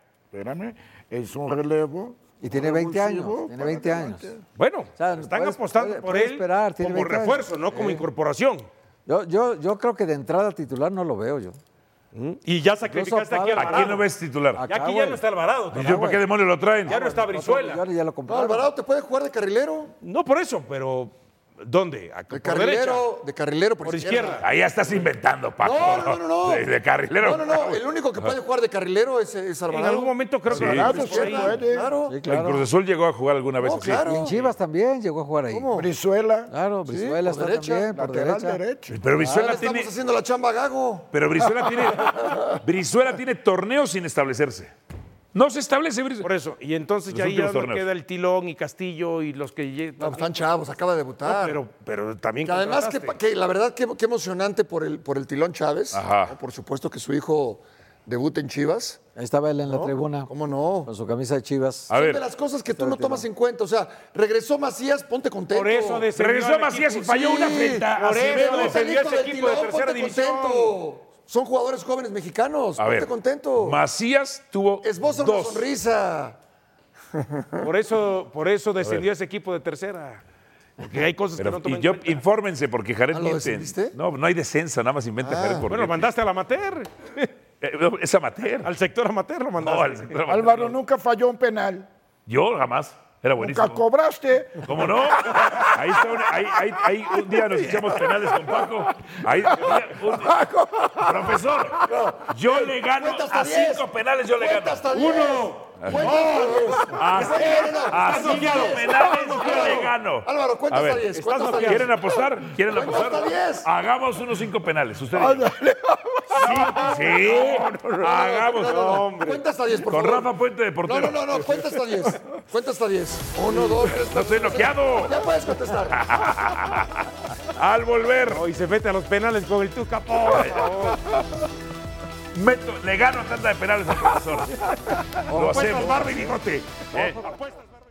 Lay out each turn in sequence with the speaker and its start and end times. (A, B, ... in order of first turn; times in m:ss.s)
0:00.3-0:04.4 A
0:02.4-0:04.3 B
0:04.6-0:08.7 C
0:05.0-0:08.1 B
0:09.1-0:11.6 B
0:12.1-0:14.1 C
0:12.9-0:14.0 B
0:13.6-0:14.6 D
0:14.6-0:16.2 B
0:14.7-0:16.1 C
0:15.7-0:16.9 D
0:16.9-0:17.8 C
0:16.9-0:18.7 B
0:18.3-0:19.9 E
0:20.0-0:23.1 C
0:22.3-0:24.4 E
0:23.8-0:24.5 C
0:24.4-0:28.3 D
0:25.6-0:32.2 E
0:29.7-0:31.9 C
0:30.5-0:31.9 A
0:30.6-0:30.9 D
0:32.1-0:32.7 B
0:32.2-0:34.1 D
0:33.6-0:34.3 E
0:34.0-0:35.7 B
0:35.5-0:35.9 E
0:35.7-0:36.5 A
0:36.5-0:38.6 B
0:36.9-0:37.9 E
0:37.9-0:39.0 A
0:38.9-0:39.9 D
0:39.2-0:42.6 E
0:41.1-0:44.7 D
0:45.3-0:46.3 D
0:46.2-0:50.5 C
0:47.1-0:47.9 D
0:50.0-0:51.6 E
0:51.2-0:53.2 C
0:52.4-0:59.0 E
0:55.9-0:56.4 D
0:59.2-1:00.3 B
0:59.7-0:59.9 C
1:00.3-1:00.9 E
1:00.8-1:01.9 B
1:01.9-1:02.2 D
1:01.9-1:06.1 E
1:02.7-1:03.3 B
1:05.5-1:07.3 C
1:06.1-1:08.8 D
1:07.1-1:13.8 E
1:07.8-1:10.8 C
1:12.8-1:15.7 D
1:14.8-1:16.4 E
1:17.2-1:17.7 E
1:17.6-1:20.2 C
1:18.8-1:19.1 D
1:20.8-1:22.2 C
1:21.4-1:26.1 D
1:23.1-1:24.0 E
1:25.2-1:25.7 E
1:25.7-1:27.3 C
1:27.6-1:28.7 D
1:28.6-1:30.2 C
1:29.6-1:30.7 D
1:30.3-1:31.9 A
1:32.3-1:33.8 D
1:33.4-1:41.7 A
1:34.6-1:40.4 D
1:41.0-1:44.9 D
1:41.9-1:43.9 E
1:44.4-1:52.1 E
1:44.9-1:49.9 C
1:46.3-1:47.0 A
1:47.0-1:55.5 D
1:51.1-1:52.1 C
1:52.7-1:53.7 E
1:55.2-1:56.6 A
1:56.4-1:57.6 C
1:56.5-1:56.8 E
1:56.7-1:59.0 D
1:58.0-2:06.1 E
1:58.6-1:59.4 C
1:59.9-2:01.3 D
2:03.8-2:05.2 D
2:05.9-2:08.4 D
2:08.2-2:11.0 C
2:10.3-2:10.7 D
2:12.3-2:14.6 D
2:15.3-2:17.6 C
2:15.3-2:16.3 D
2:16.9-2:17.2 D